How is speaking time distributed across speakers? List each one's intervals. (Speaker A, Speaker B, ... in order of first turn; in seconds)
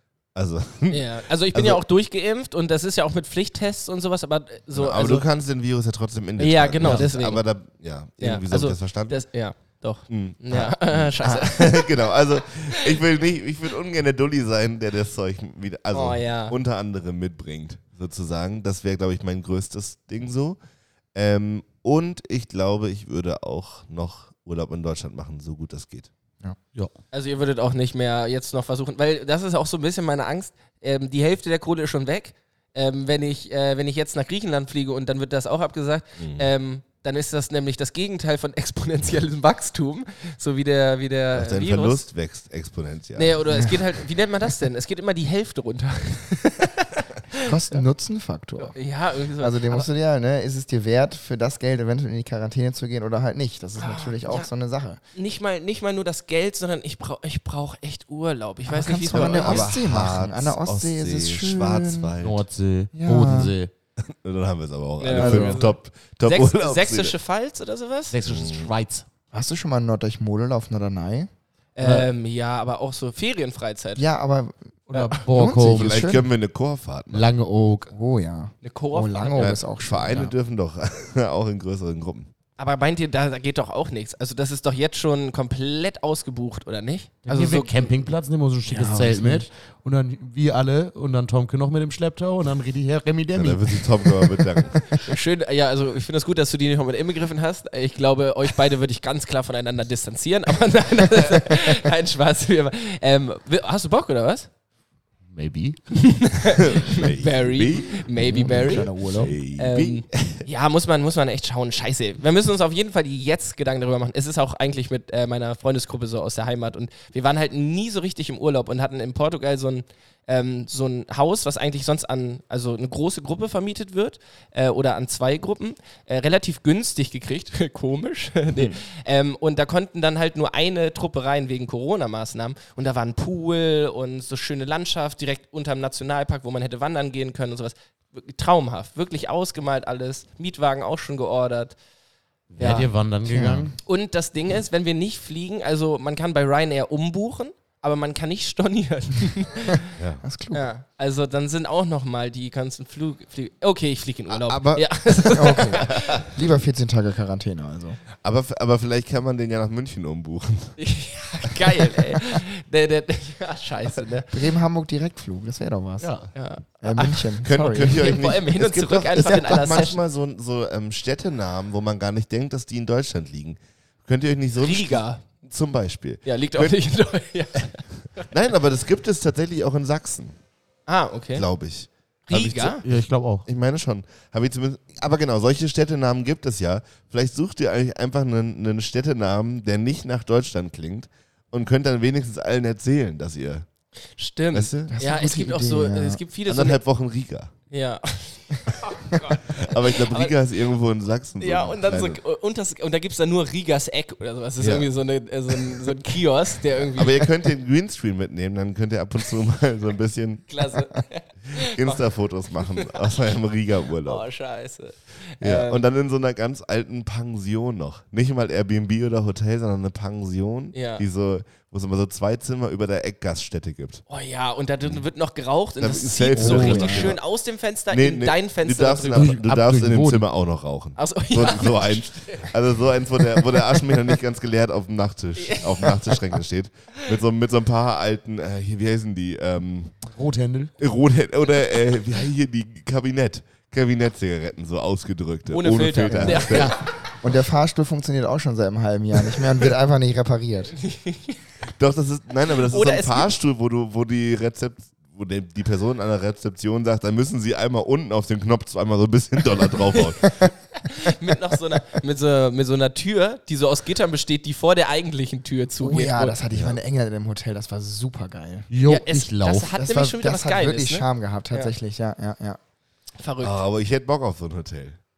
Speaker A: 0.3-1.8, 4.7-9.2, 10.1-20.6, 21.1-26.1, 36.2-36.4, 41.4-43.8, 59.1-62.4, 64.1-67.1, 68.2-68.7, 75.7-77.2, 79.4-82.3, 93.3-94.9, 106.7-110.4, 150.0-150.2, 154.3-156.4, 158.2-160.8, 167.4-176.8, 178.2-180.3, 181.3-193.7, 194.5-195.0, 196.4-197.5, 199.4-202.2, 204.6-204.9, 206.9-210.5, 211.5-214.2, 215.4-224.0, 225.8-227.2, 227.9-240.0, 240.8-246.8, 251.8-260.4, 266.5-266.8, 273.4-275.0
Speaker B: 0.9-5.2, 6.4-7.4, 8.2-11.9, 12.7-13.0, 15.9-16.6, 27.1-42.0, 43.1-47.8, 48.6-49.9, 53.8-54.5, 55.1-59.7, 65.0-68.1, 71.8-74.0, 78.6-79.6, 82.6-87.9, 88.7-89.4, 95.0-104.5, 105.9-108.9, 109.5-141.8, 142.6-142.9, 143.8-149.9, 150.5-156.2, 160.8-164.3, 166.3-170.0, 174.6-175.2, 176.2-178.3, 180.9-181.4, 182.3-182.8, 194.2-196.8, 197.7-200.3, 201.4-207.3, 210.5-212.0, 214.0-215.8, 220.7-221.0, 224.1-229.3, 231.0-232.5, 233.6-233.8, 235.4-236.2, 245.5-246.8, 250.8-251.4, 252.7-253.3, 260.8-266.4, 268.8-271.7, 273.2-273.6
Speaker C: 47.4-48.8, 49.4-55.0, 58.6-62.1, 62.9-63.5, 65.1-65.6, 69.3-71.3, 74.0-76.3, 77.9-80.3, 108.2-109.3, 143.2-143.7, 150.2-150.6, 155.3-158.0, 164.3-166.1, 166.8-168.1, 194.9-196.2, 226.4-227.2, 246.1-246.6, 247.2-250.8, 265.8-268.7, 269.8-272.6
Speaker D: 62.2-63.7, 68.1-69.0, 71.8-72.1, 74.9-76.0, 77.1-77.9, 87.2-94.5, 105.3-105.8, 142.6-143.7, 166.0-166.3, 182.8-183.4, 226.4-226.8, 229.1-230.2, 240.1-240.7, 246.5-246.8, 268.7-269.7